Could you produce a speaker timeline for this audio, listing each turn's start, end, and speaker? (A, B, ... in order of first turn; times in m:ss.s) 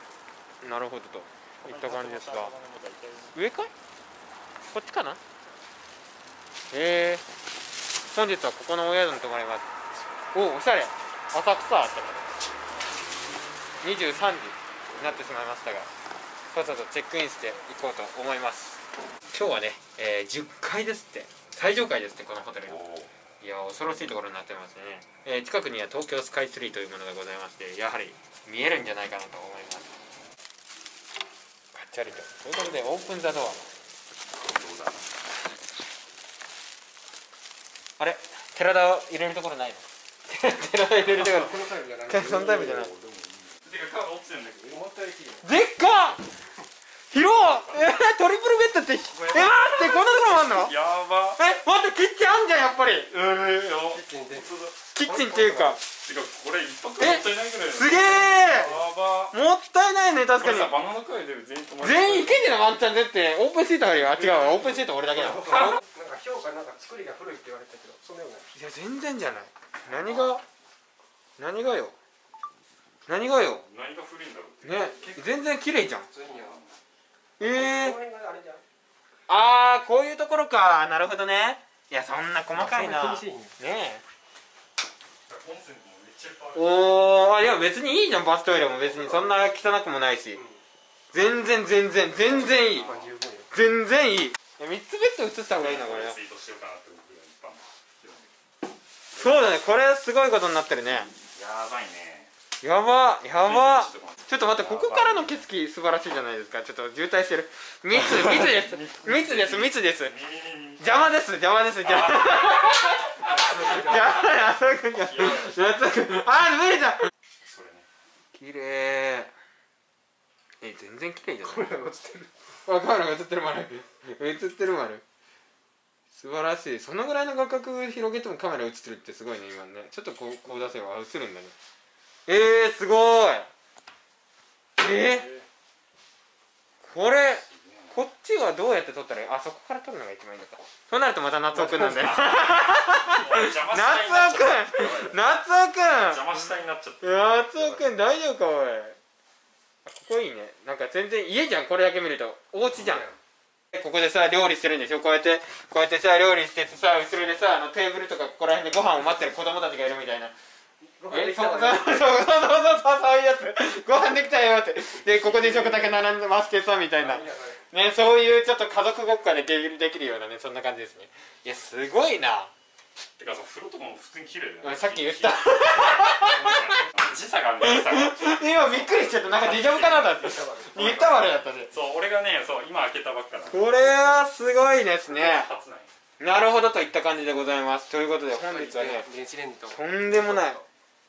0:00.6-0:02.5 A
0:01.6-0:03.4 B
0:03.3-0:03.7 A
0:04.7-0:05.2 A
0:06.7-0:07.2 A
0:08.1-0:09.7 A
0:10.3-0:12.3 A
0:13.8-0:15.9 A
0:16.5-0:18.8 A
0:19.3-0:22.8 A
0:22.7-0:23.1 B
0:23.4-0:29.9 A
0:31.7-0:33.7 A
0:34.4-0:35.0 B
0:38.0-0:41.5 A
0:41.1-0:42.8 C
0:42.1-0:42.9 A
0:42.1-0:44.9 B
0:44.7-0:45.4 C
0:45.4-0:46.2 A
0:47.1-0:50.7 A
0:47.3-0:47.8 B
0:49.1-0:51.4 B
0:51.4-0:53.1 A
0:53.1-0:54.8 B
0:53.9-0:55.8 C
0:54.9-0:55.8 A
0:56.0-0:59.4 B
0:57.0-0:58.7 A
0:59.3-1:00.7 A
1:00.4-1:02.5 B
1:01.8-1:05.8 A
1:04.0-1:04.9 B
1:05.2-1:08.5 C
1:08.5-1:10.4 A
1:11.4-1:12.0 A
1:13.1-1:13.6 A
1:13.5-1:15.2 B
1:14.6-1:16.1 A
1:16.1-1:16.6 C
1:16.2-1:16.7 B
1:17.4-1:18.0 A
1:17.4-1:18.6 C
1:19.3-1:24.0 A
1:22.5-1:23.5 C
1:25.3-1:26.8 B
1:26.5-1:30.4 A
1:31.1-1:32.9 A
1:32.3-1:33.5 C
1:32.3-1:33.1 B
1:33.5-1:36.2 A
1:35.5-1:38.3 B
1:39.1-1:41.1 A
1:41.3-1:42.3 B
1:42.6-1:50.1 A
1:43.3-1:45.4 B
1:48.1-1:50.9 B
1:50.8-1:57.1 A
1:51.9-1:52.5 B
1:53.2-1:54.3 C
1:55.0-1:55.6 B
1:57.4-1:57.9 B
1:58.3-1:59.3 A
2:00.6-2:01.7 A
2:01.4-2:02.3 C
2:02.6-2:05.0 A
2:06.1-2:11.5 A
2:12.3-2:13.5 A
2:14.8-2:15.3 A
2:15.0-2:15.5 B
2:16.8-2:26.3 A
2:17.4-2:18.0 B
2:21.6-2:25.2 B
2:25.9-2:27.9 B
2:27.0-2:29.0 A
2:29.8-2:33.0 A
2:32.8-2:33.1 C
2:33.7-2:40.3 A
2:40.8-2:42.1 C
2:41.1-2:52.5 A
2:45.3-2:45.8 C
2:47.0-2:47.6 C
2:53.2-3:00.2 B
2:54.6-2:56.8 A
2:57.6-3:01.7 A
3:00.2-3:00.9 C
3:00.8-3:01.2 B
3:01.7-3:03.8 B
3:03.5-3:05.5 A
3:05.1-3:05.9 B
3:06.2-3:09.1 A
3:08.3-3:10.6 C
3:09.7-3:10.6 A